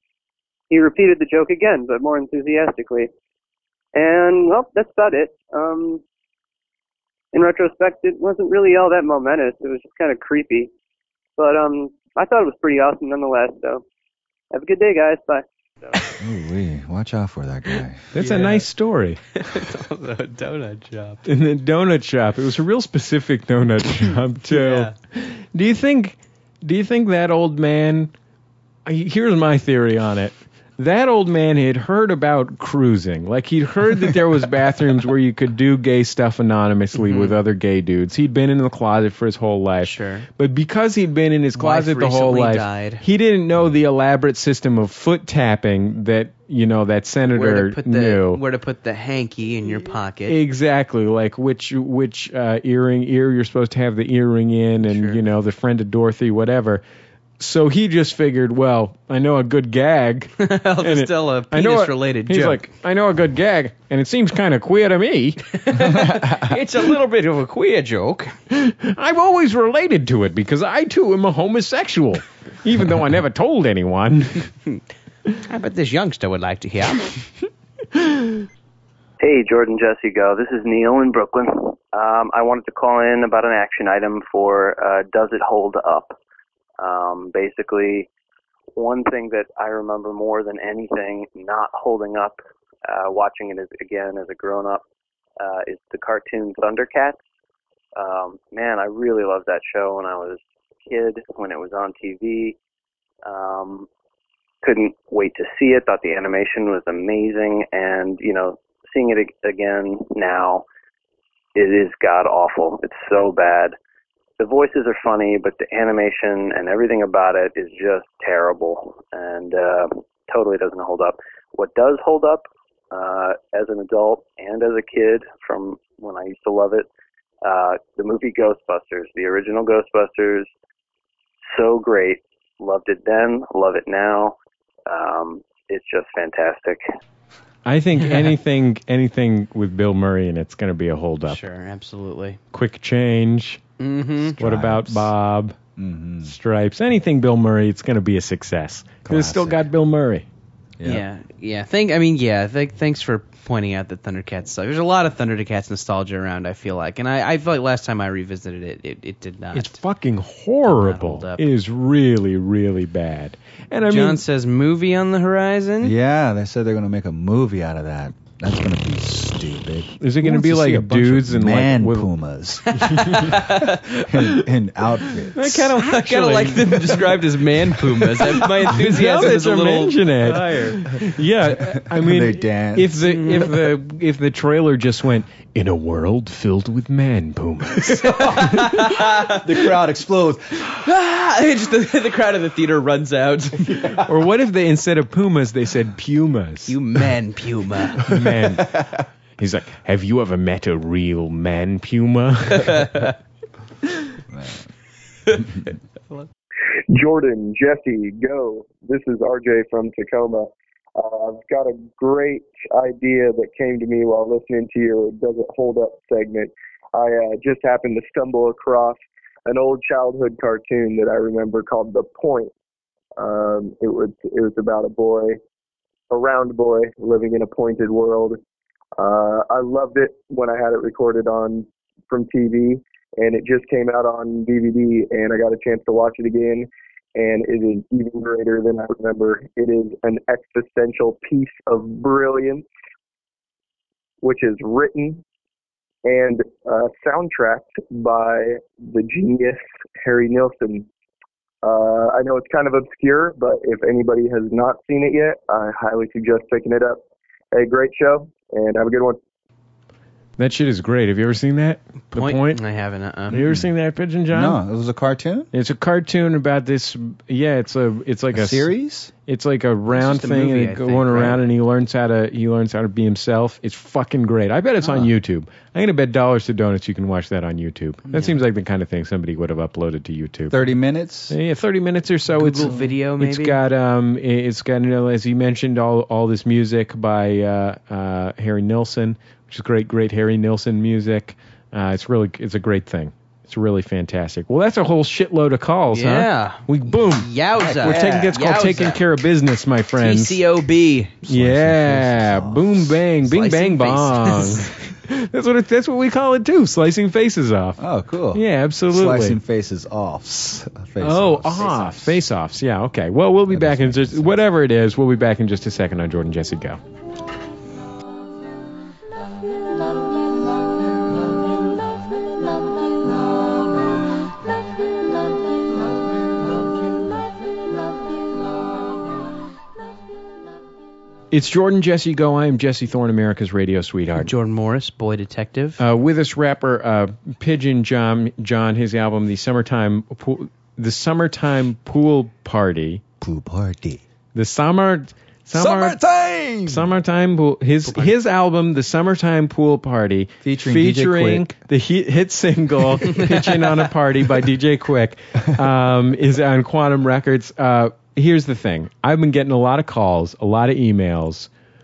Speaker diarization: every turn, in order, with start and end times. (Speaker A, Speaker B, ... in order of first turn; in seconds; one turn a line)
Speaker A: 0.7-3.1
Speaker A: 3.9-6.0
Speaker A: 7.3-10.7
Speaker A: 11.4-13.8
Speaker A: 14.5-15.4
Speaker B: 16.2-18.1
Speaker C: 18.1-19.2
Speaker D: 18.2-18.7
Speaker D: 19.3-21.2
Speaker C: 21.2-28.1
Speaker D: 24.5-24.9
Speaker C: 28.9-48.4
Speaker D: 36.9-37.4
Speaker D: 39.8-40.2
Speaker D: 41.5-43.0
Speaker D: 47.3-50.4
Speaker C: 50.3-56.8
Speaker D: 54.8-55.2
Speaker C: 57.4-65.6
Speaker D: 60.4-62.6
Speaker D: 65.5-68.3
Speaker C: 68.5-74.5
Speaker D: 75.5-77.2
Speaker E: 79.2-86.2
Speaker E: 86.8-88.1
Speaker E: 88.8-94.8
Speaker E: 95.4-97.2
Speaker E: 98.0-102.5
Speaker E: 103.2-103.9
Speaker E: 104.6-110.6
Speaker E: 111.5-113.7
Speaker E: 114.4-126.8
Speaker E: 127.4-130.5
Speaker E: 131.4-134.3
Speaker E: 134.9-136.8
Speaker C: 137.6-141.4
Speaker D: 141.3-142.4
Speaker C: 142.5-143.6
Speaker D: 143.8-144.3
Speaker C: 144.4-145.6
Speaker B: 144.4-145.1
Speaker B: 145.8-146.3
Speaker C: 146.2-150.2
Speaker B: 149.0-149.6
Speaker B: 150.8-151.0
Speaker D: 150.8-159.8
Speaker C: 159.5-164.2
Speaker D: 160.6-161.4
Speaker D: 163.8-165.9
Speaker B: 165.8-175.3
Speaker C: 170.0-172.1
Speaker D: 172.7-174.1
Speaker C: 173.1-173.4
Speaker C: 175.3-177.2
Speaker D: 175.4-180.9
Speaker C: 178.2-188.9
Speaker B: 181.5-182.9
Speaker D: 183.0-183.6
Speaker D: 187.9-189.4
Speaker B: 189.3-190.7
Speaker D: 190.8-193.8
Speaker C: 193.9-196.8
Speaker D: 196.7-198.1
Speaker C: 198.0-203.1
Speaker D: 202.5-203.1
Speaker B: 204.3-204.7
Speaker F: 206.9-222.5
Speaker F: 223.2-225.4
Speaker F: 226.1-228.4
Speaker F: 229.0-242.6
Speaker F: 244.2-245.2
Speaker F: 246.0-250.9
Speaker F: 251.6-257.0
Speaker F: 257.5-259.2
Speaker C: 260.4-262.6
Speaker D: 262.1-263.4
Speaker C: 263.3-264.6
Speaker B: 264.3-265.5
Speaker C: 265.5-268.7
Speaker B: 268.3-269.1
Speaker C: 269.2-280.6
Speaker D: 269.9-271.4
Speaker B: 280.5-281.4
Speaker C: 281.3-300.4
Speaker D: 282.3-283.6
Speaker D: 295.9-299.0
Speaker B: 297.6-298.4
Speaker D: 300.0-301.1
Speaker B: 301.2-303.0
Speaker C: 301.3-307.8
Speaker D: 303.2-304.7
Speaker B: 307.8-312.2
Speaker C: 308.3-309.4
Speaker C: 311.0-316.8
Speaker B: 313.5-314.4
Speaker C: 331.3-334.3
Speaker D: 334.2-335.8
Speaker C: 335.8-343.0
Speaker B: 343.2-344.0
Speaker C: 344.3-346.0
Speaker B: 345.5-346.9
Speaker C: 346.6-361.5
Speaker B: 350.4-351.5